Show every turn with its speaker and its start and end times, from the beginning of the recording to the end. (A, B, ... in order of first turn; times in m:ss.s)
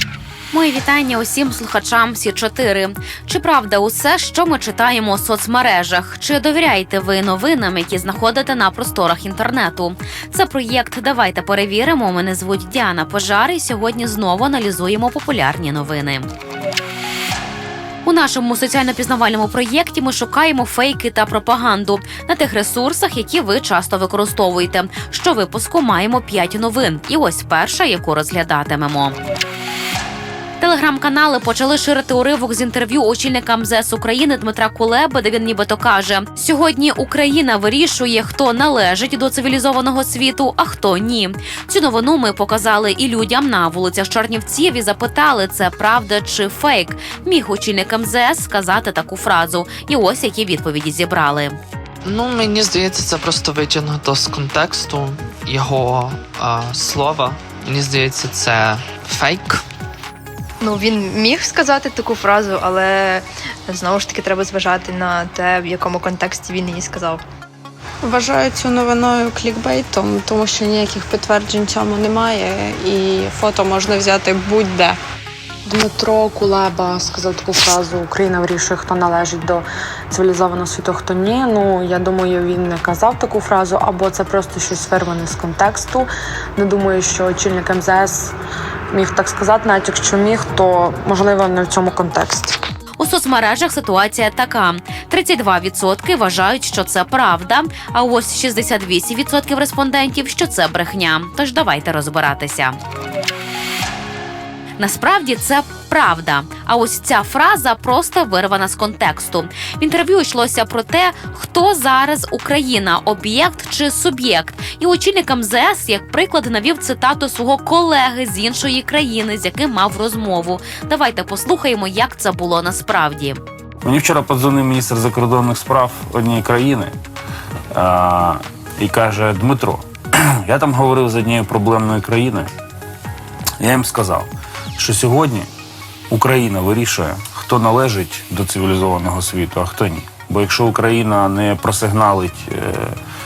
0:00.5-0:16.3 A
0:18.0-0:29.2 A
0:30.6-0:51.6 A
0:52.0-0:59.6 B
1:00.6-1:07.2 C
1:08.0-1:15.0 D
1:15.7-1:28.3 E
1:28.9-1:32.6 E
1:33.0-1:42.8 A
1:44.8-2:03.4 A
2:03.8-2:06.9 F
2:07.7-2:09.9 F
2:10.4-2:12.5 F
2:13.6-2:15.5 F
2:16.1-2:22.9 F